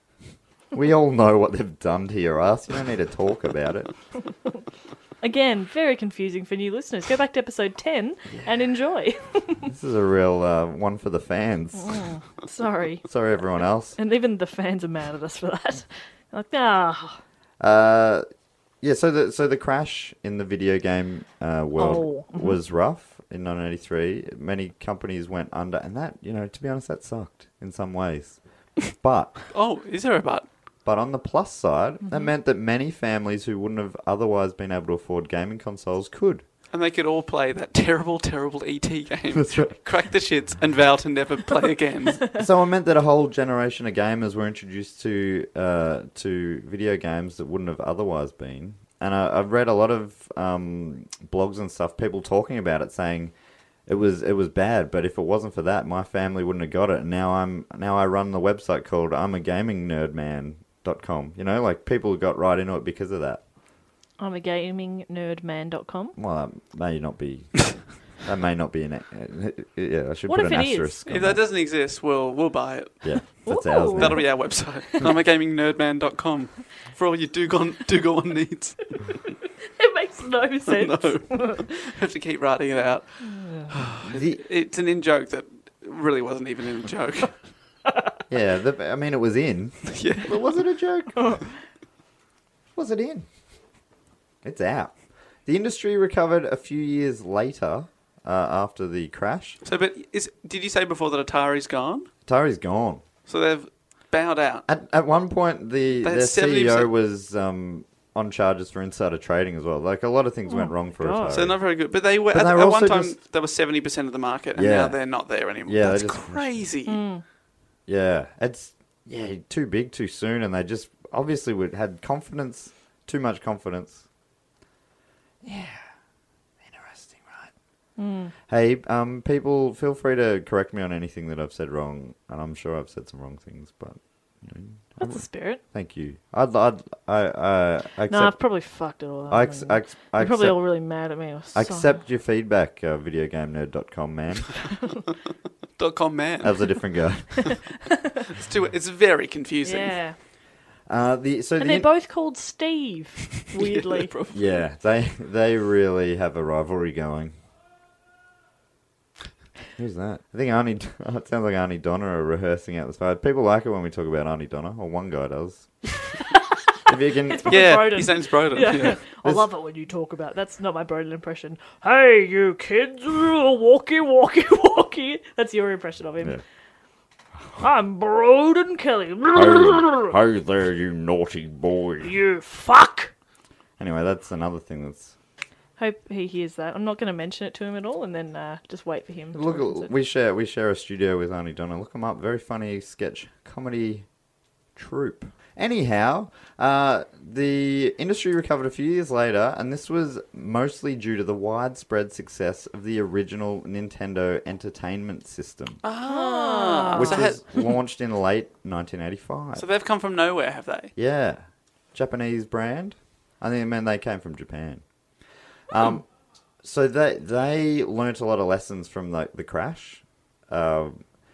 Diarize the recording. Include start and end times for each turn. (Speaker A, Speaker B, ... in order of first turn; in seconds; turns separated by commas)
Speaker A: 0.7-3.9, Speaker B: 5.2-9.7, Speaker A: 9.7-12.0, Speaker B: 11.7-13.1, Speaker A: 13.0-14.0, Speaker B: 14.0-17.2, Speaker A: 17.6-18.2, Speaker A: 18.8-29.4, Speaker B: 21.8-22.6, Speaker C: 29.5-30.5, Speaker A: 30.8-36.4, Speaker B: 32.0-32.3, Speaker C: 36.7-42.4, Speaker A: 39.3-39.8, Speaker A: 42.3-53.3, Speaker A: 53.9-63.4, Speaker B: 64.2-66.2, Speaker A: 66.2-71.4, Speaker B: 70.3-71.0, Speaker C: 71.0-73.5, Speaker A: 73.0-74.4, Speaker B: 73.4-75.1, Speaker C: 74.0-79.0, Speaker B: 79.8-81.7, Speaker C: 80.7-87.4, Speaker B: 83.2-83.7, Speaker A: 84.1-84.4, Speaker A: 88.3-91.4, Speaker C: 89.9-90.4, Speaker B: 91.2-91.5, Speaker A: 92.7-93.3, Speaker A: 94.4-99.6, Speaker C: 99.6-102.1, Speaker A: 102.2-103.0, Speaker C: 103.2-104.6, Speaker A: 104.7-111.6, Speaker C: 106.0-106.9, Speaker B: 110.5-111.4, Speaker C: 111.3-117.0, Speaker A: 112.3-113.2, Speaker A: 114.5-115.0, Speaker A: 115.7-116.6, Speaker B: 116.8-117.2, Speaker A: 117.9-124.0, Speaker A: 125.4-125.8, Speaker A: 126.6-127.5, Speaker B: 128.0-128.3, Speaker A: 128.5-138.6, Speaker B: 135.0-135.6, Speaker B: 138.1-142.0, Speaker A: 139.3-144.7, Speaker C: 145.8-147.0, Speaker A: 146.4-147.6, Speaker C: 148.3-150.0, Speaker B: 149.6-150.2, Speaker A: 150.9-151.9, Speaker B: 151.6-154.1, Speaker C: 153.6-154.6, Speaker A: 154.3-157.3, Speaker A: 159.8-165.8, Speaker A: 166.9-167.7, Speaker B: 167.3-176.4, Speaker C: 167.5-169.0, Speaker B: 177.6-180.1, Speaker A: 179.3-182.1, Speaker B: 182.0-183.1, Speaker A: 183.8-185.1, Speaker B: 185.8-189.9, Speaker A: 189.3-194.1, Speaker A: 194.8-205.8, Speaker C: 205.8-207.7, Speaker B: 206.1-207.2, Speaker A: 206.9-209.6, Speaker C: 209.6-210.9, Speaker A: 210.9-214.8, Speaker A: 215.7-216.1, Speaker A: 216.6-221.0